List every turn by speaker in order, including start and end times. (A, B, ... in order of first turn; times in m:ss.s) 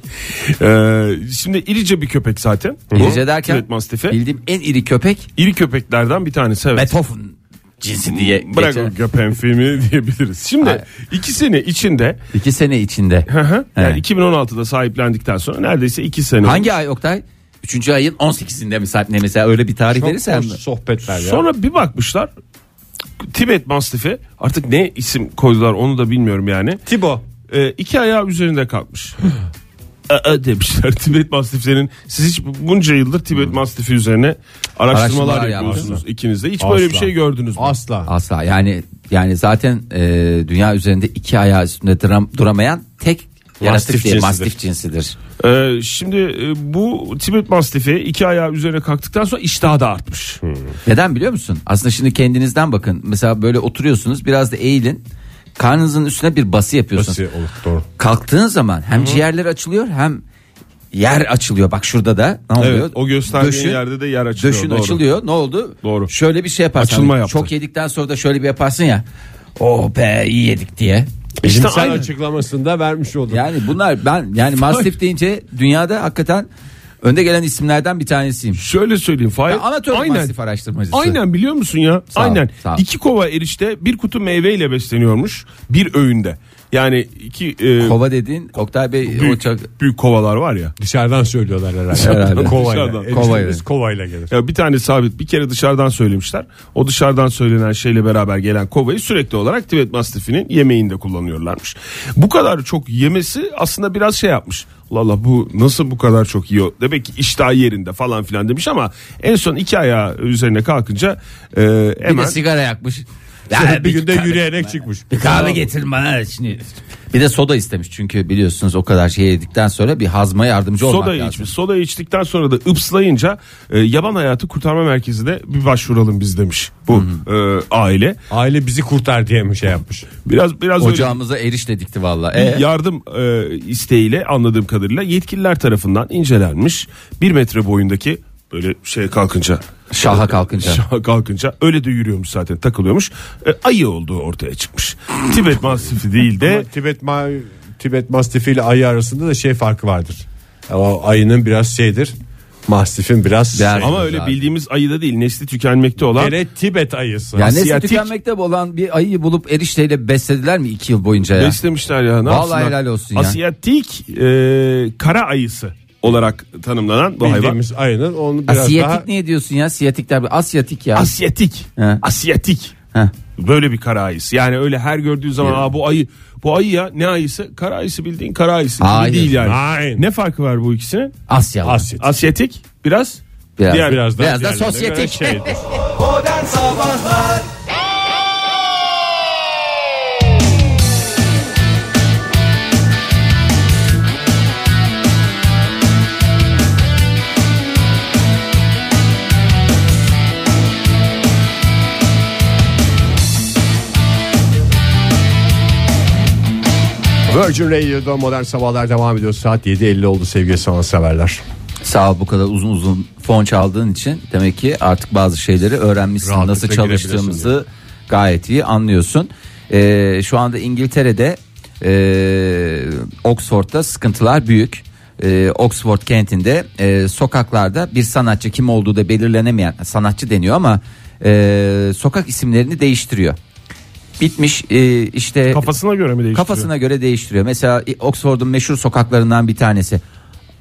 0:00.4-0:04.2 A
0:03.0-0:05.3 B
0:05.4-0:06.9 A
0:06.8-0:08.9 B
0:08.1-0:12.2 A
0:12.3-0:14.0 B
0:13.3-0:16.7 A
0:16.4-0:20.6 B
0:19.9-0:21.4 C
0:21.1-0:22.3 A
0:23.2-0:26.8 A
0:26.9-0:27.2 C
0:27.5-0:29.2 A
0:30.1-0:37.8 A
0:34.9-0:35.9 B
0:36.6-0:38.1 C
0:38.1-0:45.2 B
0:43.6-0:44.6 C
0:45.4-0:50.4 A
0:50.4-0:50.7 C
0:50.8-0:55.0 B
0:55.6-0:57.2 B
0:57.0-0:57.9 C
0:58.0-1:00.2 B
0:59.0-0:59.2 A
1:00.9-1:03.8 B
1:02.6-1:05.0 A
1:04.4-1:09.0 B
1:05.8-1:06.1 A
1:06.8-1:07.5 A
1:09.6-1:11.1 B
1:11.4-1:12.1 A
1:11.4-1:13.5 C
1:13.3-1:16.5 B
1:14.6-1:14.9 A
1:17.0-1:18.6 B
1:18.6-1:20.3 A
1:19.5-1:21.2 B
1:20.9-1:28.0 A
1:22.1-1:22.8 B
1:27.8-1:29.7 B
1:29.1-1:30.7 A
1:30.8-1:34.3 C
1:32.0-1:32.6 B
1:32.0-1:33.4 A
1:33.1-1:33.6 B
1:34.3-1:52.4 A
1:52.0-2:01.5 B
1:53.5-1:55.6 C
2:00.8-2:08.2 A
2:06.9-2:07.2 B
2:08.3-2:10.1 C
2:10.2-2:11.2 A
2:10.8-2:12.6 B
2:12.3-2:26.7 A
2:19.9-2:20.8 B
2:26.4-2:32.1 C
2:32.7-2:34.0 C
2:33.6-2:34.4 B
2:33.8-2:36.4 A
2:36.1-2:37.6 C
2:37.4-2:41.6 B
2:37.4-2:38.1 A
2:41.4-2:47.6 A
2:42.2-2:43.4 B
2:47.2-2:49.1 C
2:48.5-2:51.1 B
2:51.0-2:52.7 A
2:51.8-2:52.0 B
2:53.4-3:01.1 A
2:58.8-2:59.4 B
2:59.4-3:00.0 C
3:01.3-3:01.9 B
3:01.6-3:02.1 C
3:02.0-3:04.0 A
3:03.6-3:05.6 B
3:03.7-3:05.7 C
3:27.3-3:31.4 C
3:31.8-3:53.4 B
3:36.2-3:37.5 C
3:54.2-3:55.6 B
3:55.5-3:56.7 A
3:56.3-4:00.0 B